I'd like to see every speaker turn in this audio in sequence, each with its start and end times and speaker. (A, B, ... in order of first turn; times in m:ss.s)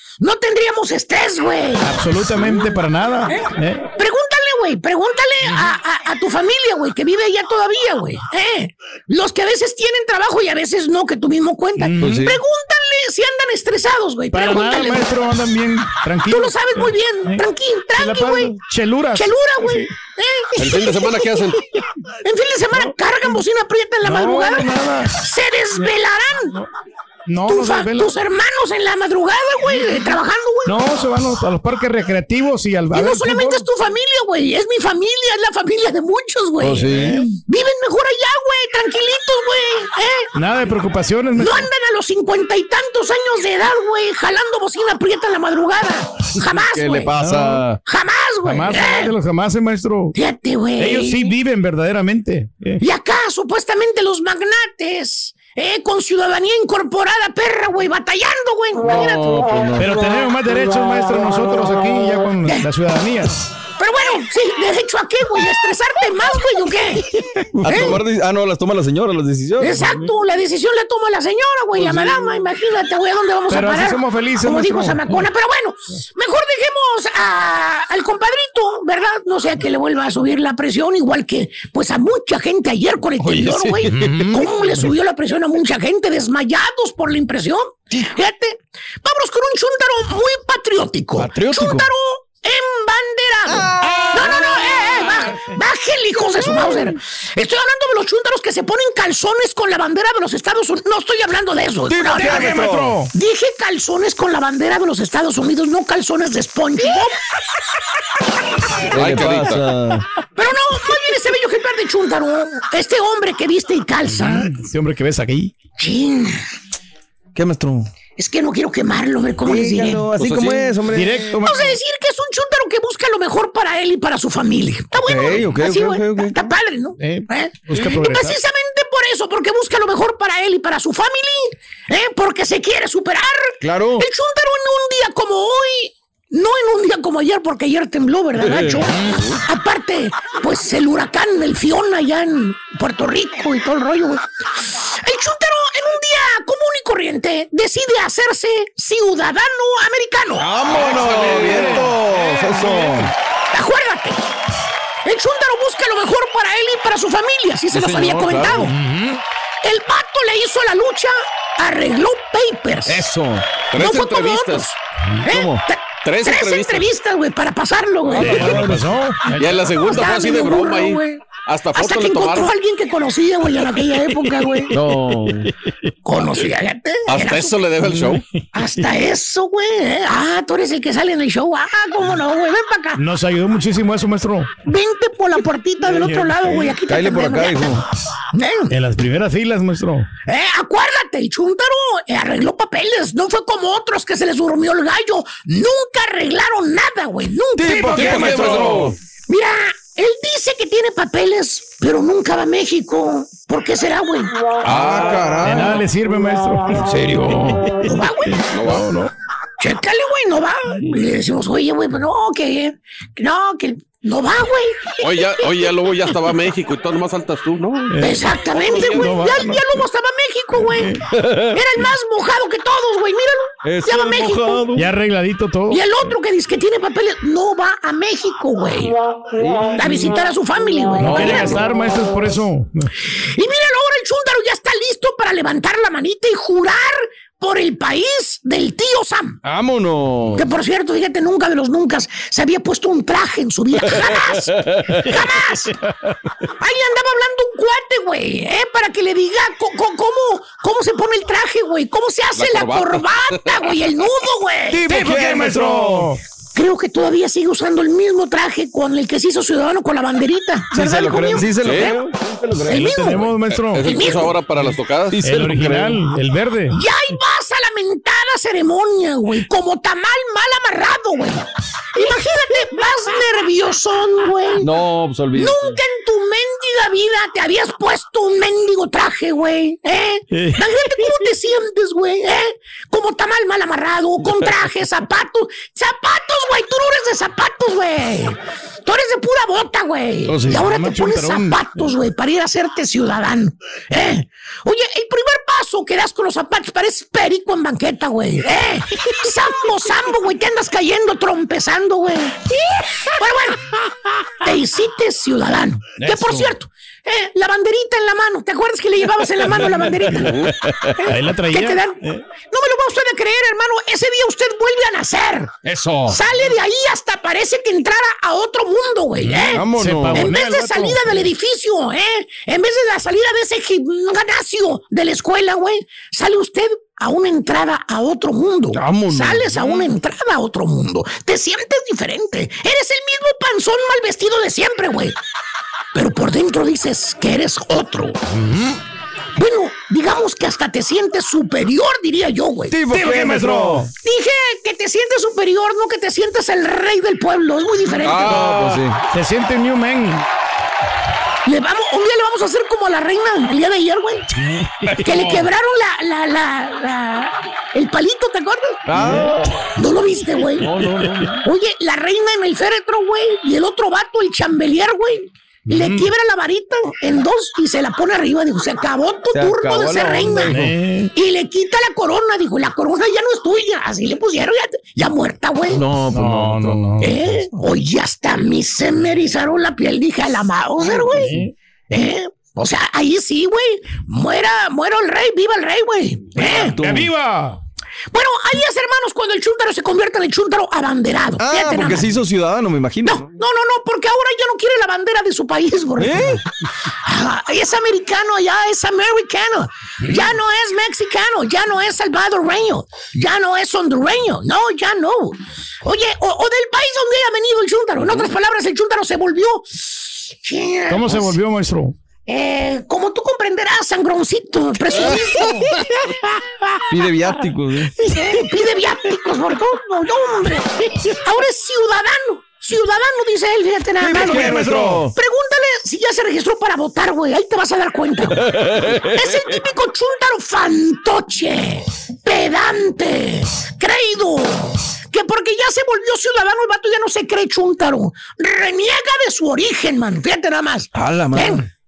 0:00.2-0:01.9 A
0:01.8-0:03.9 B
0:04.0-0:15.0 A
0:11.8-0:12.3 B
0:12.0-0:12.4 C
0:14.3-0:16.6 B
0:16.2-0:18.5 A
0:18.0-0:19.9 B
0:19.1-0:21.6 A
0:20.6-0:21.6 D
0:22.2-0:26.5 A
0:24.0-0:25.2 B
0:27.3-0:28.1 B
0:27.4-0:30.8 A
0:30.6-0:33.6 B
0:32.9-0:36.8 A
0:36.6-0:37.2 C
0:36.9-0:37.4 B
0:37.4-0:40.3 A
0:40.3-0:41.7 B
0:41.4-0:47.1 A
0:46.4-0:47.8 C
0:47.2-0:47.6 B
0:47.8-0:49.1 A
0:48.4-0:50.1 B
0:50.1-0:51.3 A
0:50.8-0:52.8 B
0:52.8-0:59.4 A
0:58.8-1:00.2 C
0:59.8-1:03.4 B
1:03.8-1:07.0 A
1:07.5-1:10.1 C
1:07.6-1:07.9 B
1:07.7-1:08.0 A
1:09.6-1:42.6 A
1:13.5-1:15.1 B
1:23.2-1:24.4 C
1:23.9-1:24.4 B
1:31.2-1:31.9 C
1:33.5-1:35.0 C
1:41.9-1:43.0 C
1:42.1-1:43.1 B
1:43.1-1:47.1 A
1:48.9-1:50.0 C
1:48.9-1:49.6 D
1:50.4-1:54.5 A
1:54.1-1:55.5 B
1:55.8-1:56.4 A
1:57.4-1:57.9 C
1:58.2-2:00.0 A
1:59.4-2:01.5 C
2:00.2-2:00.8 D
2:00.9-2:01.7 B
2:01.4-2:24.2 A
2:05.0-2:06.3 C
2:07.0-2:08.4 B
2:13.6-2:14.0 C
2:18.4-2:19.4 C
2:24.8-2:30.4 A
2:30.4-2:33.1 C
2:30.7-2:31.7 D
2:30.7-2:33.0 B
2:33.5-2:34.3 A
2:35.0-2:38.7 A
2:37.7-2:38.7 C
2:38.7-2:39.2 B
2:39.6-2:43.0 A
2:42.8-2:43.6 C
2:43.7-2:44.7 D
2:43.7-2:48.5 A
2:45.3-2:45.6 C
2:46.0-2:46.9 D
2:48.1-2:48.8 C
2:48.1-2:49.7 B
2:48.1-2:48.4 D
2:49.4-2:52.5 D
2:49.6-2:54.7 A
2:54.7-2:55.5 C
2:56.0-2:57.6 A
2:57.1-2:58.4 D
2:58.5-3:03.0 A
3:03.0-3:04.5 B
3:04.6-3:07.8 A
3:06.0-3:06.3 B
3:06.6-3:07.8 C
3:08.3-3:08.7 A
3:08.7-3:10.1 B
3:10.3-3:18.6 A
3:17.6-3:18.9 C
3:17.7-3:18.9 B
3:17.9-3:18.9 D
3:19.3-3:24.5 A
3:24.6-3:25.7 D
3:24.6-3:25.7 C
3:24.7-3:27.9 B
3:26.8-3:27.6 C
3:27.8-3:28.4 A
3:28.5-3:28.9 D
3:28.6-3:29.1 B
3:29.6-3:35.7 A
3:35.0-3:38.0 D
3:37.9-3:38.2 B
3:38.0-3:41.0 A
3:38.4-3:39.6 C
3:38.9-3:39.6 B
3:40.7-3:41.0 B
3:41.0-3:41.9 C
3:41.5-3:44.6 A
3:43.6-3:44.9 C
3:44.7-3:45.8 B
3:45.7-3:49.0 A
3:49.4-3:50.1 C
3:49.7-3:51.5 A
3:51.0-3:52.9 B
3:51.0-3:51.6 C
3:53.3-3:59.4 A
3:59.4-4:00.4 C
4:00.3-4:05.7 A
4:04.0-4:05.0 C
4:06.6-4:15.0 A
4:12.3-4:13.7 D
4:14.7-4:16.1 C
4:14.7-4:16.2 B
4:16.5-4:22.0 A
4:20.7-4:23.2 C
4:21.6-4:22.0 D
4:22.6-4:23.2 A
4:22.7-4:24.2 B
4:23.4-4:26.0 D
4:23.8-4:24.3 A
4:25.2-4:26.8 B
4:26.7-4:34.7 A
4:34.6-4:35.8 C
4:35.3-5:02.5 A
4:40.3-4:40.6 B
4:50.3-4:51.6 C
4:50.5-4:51.4 B
5:03.2-5:03.7 A
5:04.4-5:15.5 A
5:06.0-5:06.4 B
5:09.8-5:10.9 C
5:11.0-5:12.2 B
5:15.6-5:16.2 C
5:16.1-5:35.1 A
5:19.3-5:20.3 C
5:19.3-5:21.2 B
5:28.7-5:29.9 C
5:35.9-5:38.2 A
5:38.4-5:38.7 B
5:39.4-5:42.7 A
5:42.7-5:43.9 C
5:42.9-5:43.9 B
5:44.0-5:48.5 A
5:48.0-5:48.8 D
5:48.0-5:49.0 C
5:49.1-5:50.2 B
5:51.4-5:54.3 A
5:54.5-5:55.2 B
5:54.9-5:58.8 A
5:58.8-5:59.6 C
5:59.0-5:59.4 B
5:59.8-6:00.7 A
6:00.4-6:01.4 C
6:01.4-6:10.5 A
6:05.7-6:06.0 B
6:09.3-6:10.8 C
6:10.4-6:11.1 B
6:11.1-6:15.8 A
6:15.7-6:16.9 C
6:16.1-6:17.1 B
6:17.0-6:21.4 A
6:21.2-6:21.5 B
6:21.9-6:26.8 A
6:26.4-6:27.1 C
6:26.7-6:27.6 B
6:28.1-6:32.1 A
6:31.4-6:33.3 C
6:33.0-6:36.4 A
6:36.0-6:36.4 C
6:37.0-6:51.4 A
6:50.9-6:51.9 B
6:52.3-6:56.2 A
6:54.9-6:55.6 C
6:56.9-6:57.9 C
6:58.0-7:04.5 A
7:04.0-7:05.1 C
7:04.1-7:05.0 B
7:05.1-7:08.4 A
7:08.4-7:09.3 C
7:09.0-7:21.6 A
7:20.9-7:21.6 C